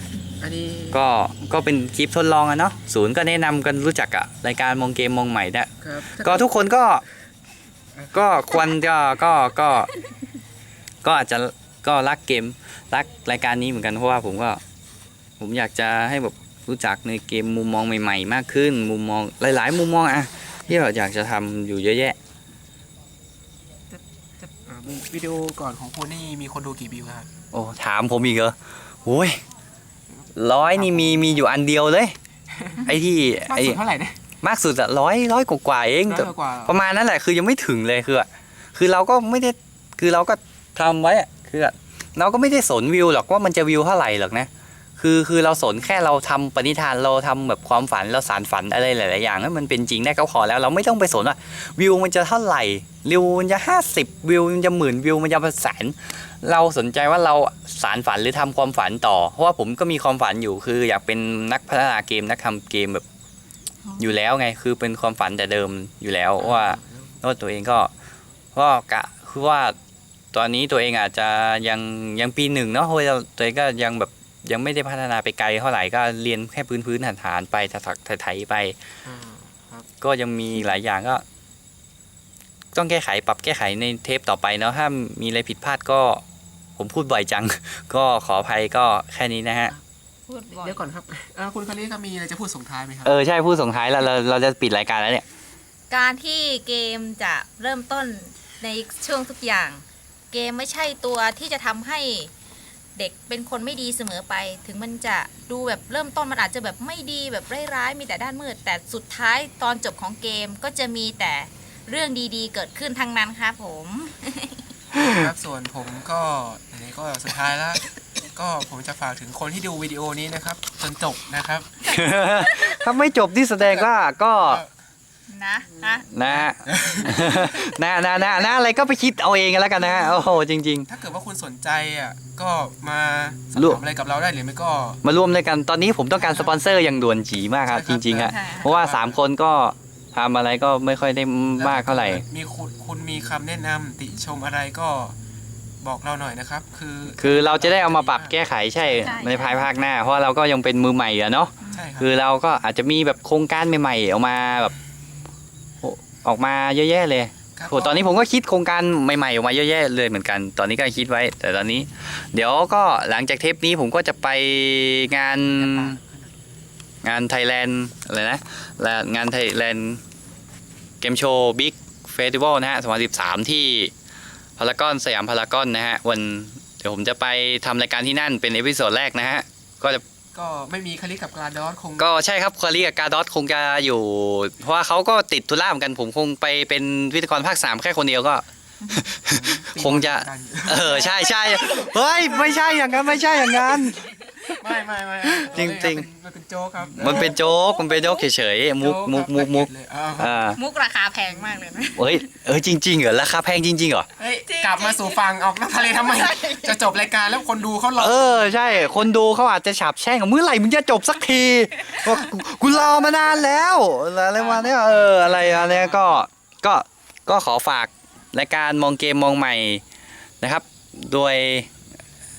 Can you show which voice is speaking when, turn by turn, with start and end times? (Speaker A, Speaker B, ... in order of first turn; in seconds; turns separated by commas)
Speaker A: 0.4-1.0, Speaker B: 0.9-7.0, Speaker A: 5.8-6.5, Speaker A: 8.0-8.2, Speaker B: 8.1-9.9, Speaker B: 11.0-14.6, Speaker B: 15.4-22.2, Speaker A: 23.9-27.3, Speaker B: 27.5-29.4, Speaker A: 30.1-31.4, Speaker B: 30.3-32.1, Speaker A: 32.5-32.9, Speaker B: 32.8-33.8, Speaker A: 33.4-34.2, Speaker B: 34.4-63.0, Speaker A: 36.0-36.8, Speaker C: 63.8-64.2, Speaker B: 64.0-67.9, Speaker A: 66.4-67.2, Speaker B: 68.5-69.7, Speaker B: 70.3-78.8, Speaker A: 79.0-79.9, Speaker B: 80.0-81.2, Speaker B: 82.7-86.2, Speaker B: 86.8-89.7, Speaker C: 90.3-90.8, Speaker A: 90.6-93.2, Speaker B: 93.0-95.2, Speaker C: 95.9-102.3, Speaker C: 103.0-114.7, Speaker B: 114.9-115.2, Speaker A: 115.0-121.7, Speaker C: 121.8-122.9, Speaker B: 121.8-124.6, Speaker A: 123.6-123.9, Speaker A: 124.4-124.7, Speaker C: 125.3-126.1, Speaker B: 126.1-130.9, Speaker A: 126.2-127.5, Speaker C: 128.1-128.4, Speaker A: 130.9-135.0, Speaker B: 133.5-133.8, Speaker B: 135.0-142.2, Speaker A: 136.1-136.6, Speaker A: 137.7-139.2, Speaker C: 138.3-138.7, Speaker A: 141.6-145.2, Speaker A: 145.8-149.1, Speaker B: 147.2-154.7, Speaker C: 149.0-149.7, Speaker C: 151.6-151.9, Speaker A: 151.7-152.1, Speaker B: 155.8-166.0, Speaker A: 157.6-158.2, Speaker A: 165.4-166.3, Speaker B: 167.0-170.0, Speaker B: 171.0-173.9, Speaker B: 174.6-180.0, Speaker A: 180.3-182.1, Speaker B: 182.0-194.6, Speaker C: 188.8-189.1, Speaker A: 189.2-192.3, Speaker A: 194.4-197.3, Speaker B: 195.2-196.1, Speaker B: 196.9-200.6, Speaker C: 197.0-198.2, Speaker A: 198.8-200.4, Speaker C: 200.6-202.2, Speaker B: 201.9-204.1, Speaker A: 204.2-208.6, Speaker C: 204.5-205.2, Speaker C: 205.8-206.9, Speaker B: 208.0-219.8, Speaker C: 211.8-212.1, Speaker A: 214.4-216.2, Speaker B: 220.4-221.7